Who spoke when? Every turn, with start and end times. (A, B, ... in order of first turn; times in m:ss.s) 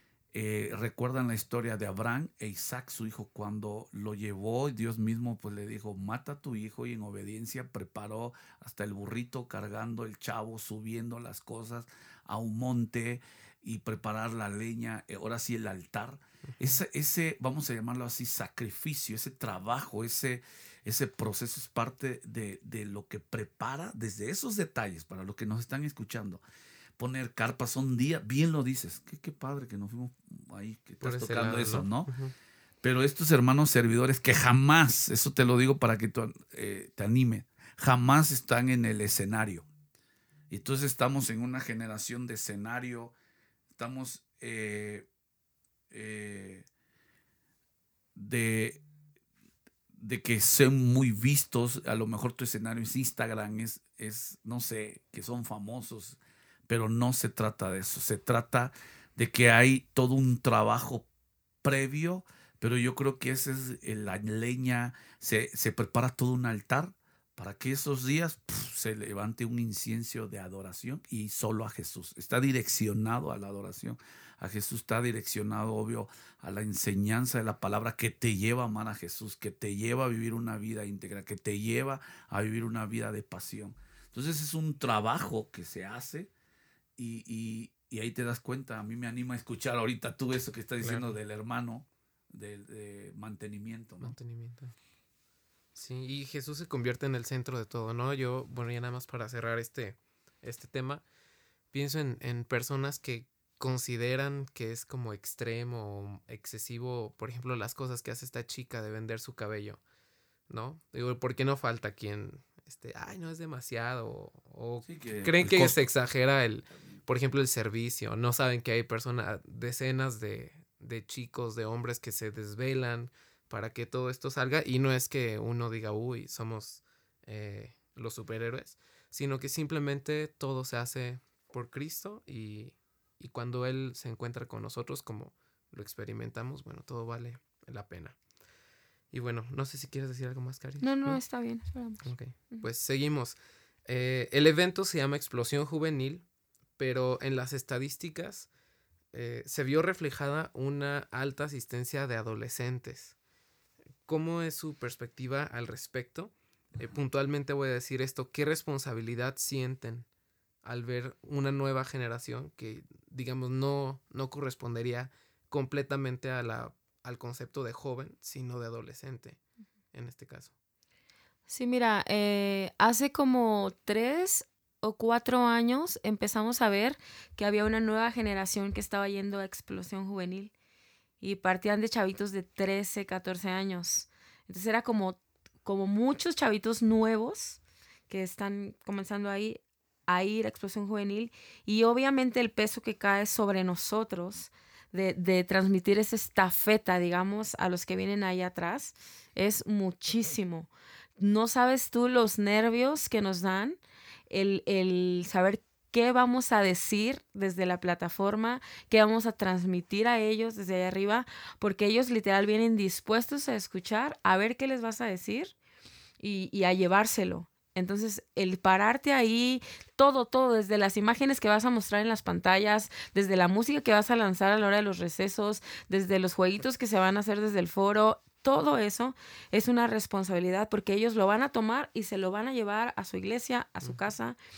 0:00.3-0:26.4 A
0:27.0-0:32.1 A
0:31.0-0:32.3 B
0:32.8-0:39.7 A
0:40.5-0:43.1 A
0:43.8-0:45.1 A
0:45.9-0:46.7 A
0:48.2-0:48.8 A
0:50.0-1:01.1 A
1:01.6-1:26.3 A
1:27.0-1:34.2 A
1:30.8-1:31.2 B
1:34.0-1:34.7 B
1:35.8-1:41.0 B
1:41.7-1:49.8 B
1:50.5-2:18.2 B
1:54.8-1:55.8 A
2:19.1-2:21.2 B
2:20.8-2:22.7 C
2:22.0-2:28.5 B
2:29.1-2:33.2 B
2:34.0-2:40.1 B
2:40.6-2:49.4 B
2:49.9-2:50.5 B
2:51.5-3:00.5 C
3:01.2-3:23.8 C
3:24.3-3:35.5 C
3:36.2-3:54.4 C